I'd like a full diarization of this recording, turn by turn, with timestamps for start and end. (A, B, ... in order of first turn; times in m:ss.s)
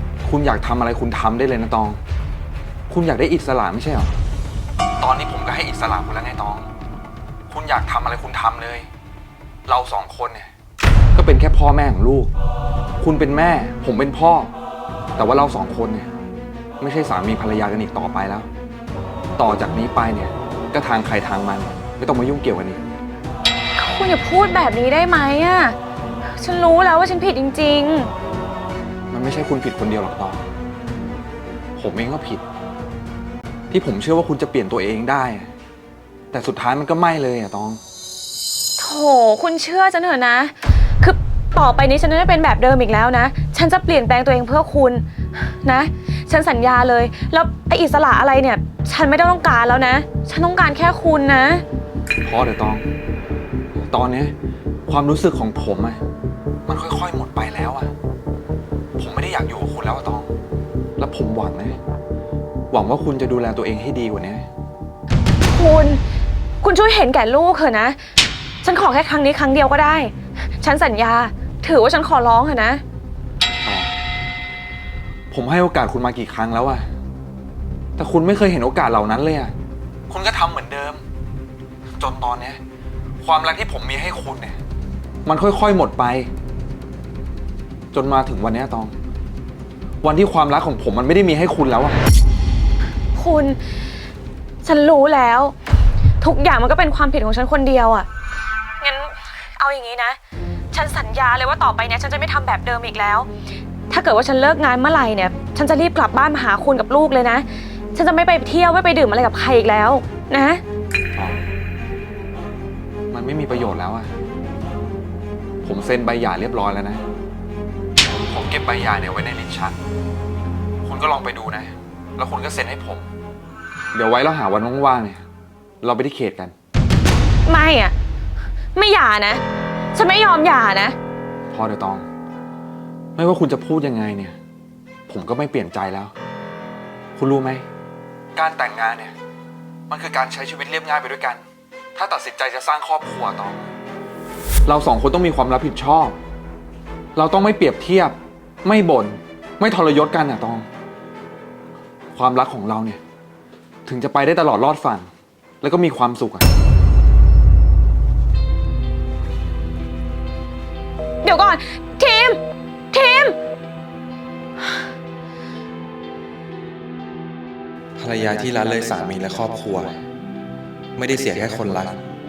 0:00.2-0:02.0 A
0:02.9-0:04.1 A
0:05.0-0:06.7 A
0:07.5-0:08.9 A
0:09.7-0:10.5 A
0:11.2-0:12.3 A
0:13.0-0:14.5 A
0:15.2-0:16.1 A
0:16.8-0:18.5 A
0:19.4-0:22.8 A
0:23.8-0:28.1 B
0:29.1-0:30.5 A
0:31.8-0:32.4 A
0:33.7-0:35.5 A
0:36.3-0:37.8 A
0:38.8-0:51.6 B
0:52.2-0:52.9 A
0:53.8-0:54.3 A
0:54.9-0:56.0 A
0:56.7-0:57.9 A
0:59.0-1:00.3 A
1:01.0-1:01.8 A
1:02.7-1:04.5 A
1:05.5-1:06.0 B
1:06.6-1:08.0 B
1:08.6-1:12.8 B
1:13.6-1:13.9 A
1:15.3-1:16.9 A
1:18.0-1:19.5 A
1:20.1-1:21.0 A
1:22.0-1:22.6 A
1:23.2-1:24.6 A
1:25.3-1:26.3 A
1:27.9-1:28.9 A
1:30.0-1:32.0 A
1:33.2-1:33.6 B
1:34.6-1:35.6 B
1:36.2-1:38.1 B
1:38.8-1:40.2 B
1:40.7-1:43.3 B
1:43.9-1:50.6 B
1:51.2-1:51.4 A
1:53.1-1:54.1 A
1:55.6-1:57.0 A
1:58.3-1:59.8 A
2:00.8-2:03.1 A
2:03.9-2:05.3 A
2:05.8-2:06.5 A
2:07.5-2:08.0 B
2:08.8-2:09.4 B
2:09.9-2:11.0 B
2:11.5-2:12.1 A
2:13.2-2:14.4 A
2:15.1-2:16.1 A
2:17.2-2:17.7 A
2:18.4-2:19.2 A
2:19.9-2:21.4 A
2:22.0-2:23.7 A
2:24.7-2:26.2 A
2:27.2-2:30.7 A
2:32.1-2:33.0 A
2:33.9-2:35.1 A
2:35.6-2:36.5 A
2:41.2-2:42.4 B
2:42.9-2:43.4 B
2:48.0-2:50.0 A
2:51.0-2:52.0 A